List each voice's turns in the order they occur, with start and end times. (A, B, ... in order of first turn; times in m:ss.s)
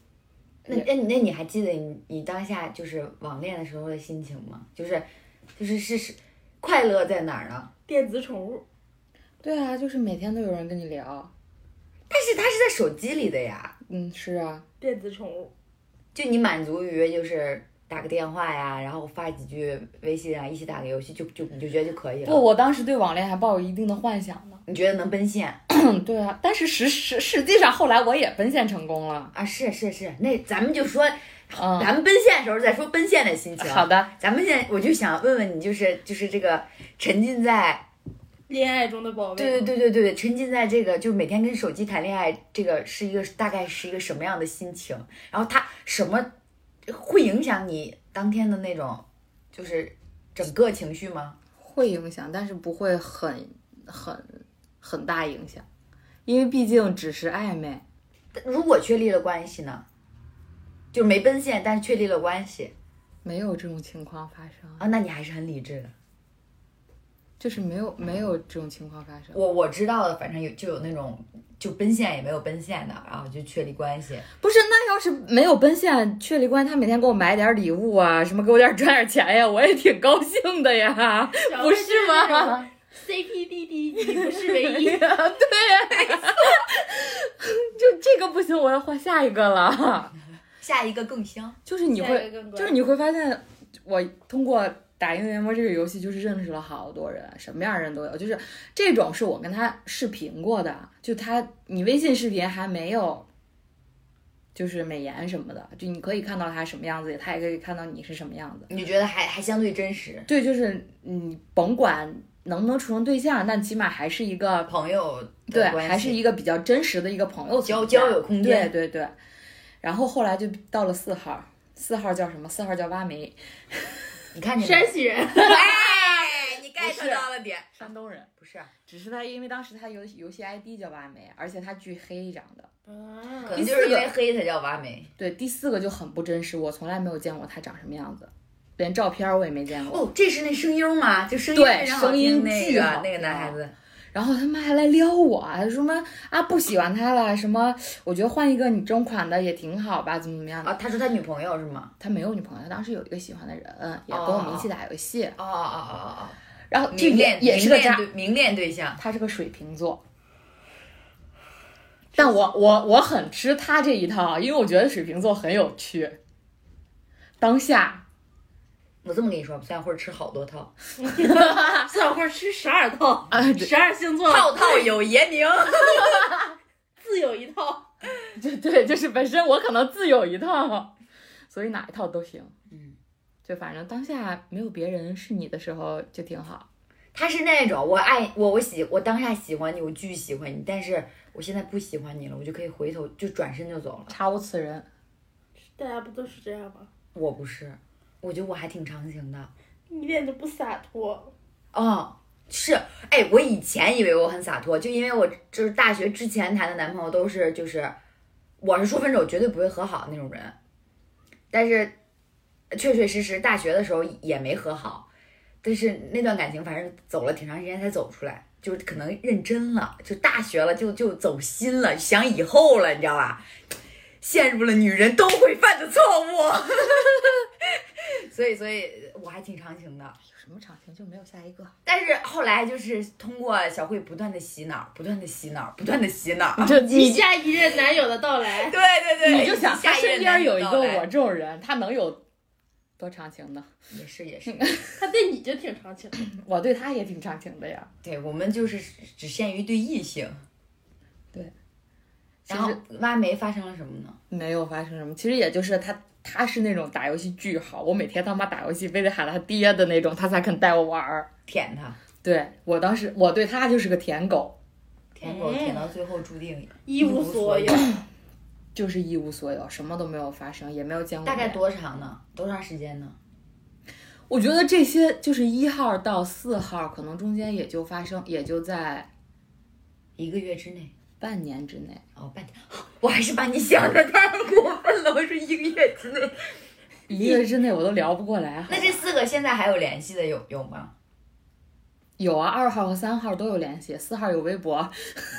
0:00.6-0:07.7 A
0:07.9-0:08.6 B
0:09.4-0:11.3 C
0:12.1-0:13.7 A
0:13.9-0:14.6 C
0:14.8-0:15.5 B
0:16.1-0:22.4 A
0:22.2-0:24.6 C
0:24.6-0:25.6 A
0:25.7-0:29.3 C
0:29.3-0:37.9 A
0:31.6-0:31.9 C
0:33.6-0:34.1 C
0:38.5-0:39.7 B
0:39.4-0:46.3 A
0:46.8-0:51.4 A
0:51.6-0:55.6 C
0:56.2-0:57.8 C
0:58.3-0:59.8 A
1:00.9-1:02.7 A
1:03.2-1:04.8 C
1:04.8-1:05.9 A
1:07.4-1:09.4 C
1:09.3-1:14.3 A
1:14.4-1:22.7 C
1:21.4-1:25.1 B
1:24.3-1:30.2 C
1:30.6-1:31.6 A
1:31.6-1:43.3 C
1:31.9-1:32.8 B
1:44.5-1:48.7 C
1:48.7-1:50.3 A
1:50.3-1:54.7 C
1:54.7-1:56.2 A
1:55.5-1:59.1 C
1:57.6-1:58.7 A
1:59.8-2:04.0 C
2:04.3-2:07.9 A
2:04.6-2:05.6 B
2:05.4-2:08.3 C
2:08.4-2:08.7 A
2:08.8-2:12.7 C
2:12.9-2:13.6 B
2:13.4-2:15.1 A
2:13.5-2:14.1 C
2:15.2-2:20.1 C
2:19.8-2:23.7 A
2:21.5-2:23.6 C
2:24.1-2:30.7 C
2:30.6-2:31.9 A
2:32.0-2:35.4 C
2:34.1-2:34.7 A
2:35.4-2:36.4 A
2:36.7-2:38.1 C
2:36.9-2:39.0 A
2:39.0-2:40.0 C
2:42.2-2:46.2 C
2:47.4-2:48.0 C
2:49.0-2:50.7 A
2:51.0-2:54.9 B
2:51.2-2:51.9 C
2:53.3-2:53.7 C
2:54.2-2:56.3 A
2:57.0-2:57.9 B
2:58.4-3:00.9 C
3:01.5-3:02.5 C
3:02.7-3:03.0 A
3:03.4-3:06.7 C
3:07.1-3:14.1 A
3:14.1-3:14.9 C
3:15.7-3:16.9 B
3:17.1-3:19.5 A
3:19.9-3:21.3 B
3:21.7-3:28.0 A
3:28.6-3:30.6 A
3:31.5-3:31.9 A
3:32.7-3:35.1 A
3:35.6-3:43.4 A
3:44.2-3:50.2 A
3:50.2-3:51.7 C
3:51.8-3:56.8 A
3:56.6-3:57.2 C
3:56.7-3:58.8 B
3:58.6-4:01.1 A
3:59.2-4:02.2 C
4:03.0-4:03.7 C
4:03.9-4:04.6 A
4:04.5-4:05.0 C
4:05.0-4:06.2 B
4:06.2-4:07.9 C
4:08.0-4:10.4 A
4:12.5-4:12.8 C
4:12.5-4:14.2 A
4:14.3-4:21.3 C
4:21.5-4:22.0 A
4:22.2-4:24.6 C
4:25.1-4:27.8 A
4:25.2-4:25.9 B
4:26.9-4:27.9 B
4:28.7-4:31.6 C
4:31.2-4:33.2 A
4:34.3-4:39.1 C
4:40.2-4:40.9 A
4:41.2-4:42.0 C
4:42.2-4:46.4 A
4:47.1-4:49.0 C
4:48.7-4:50.9 A
4:52.2-4:54.9 C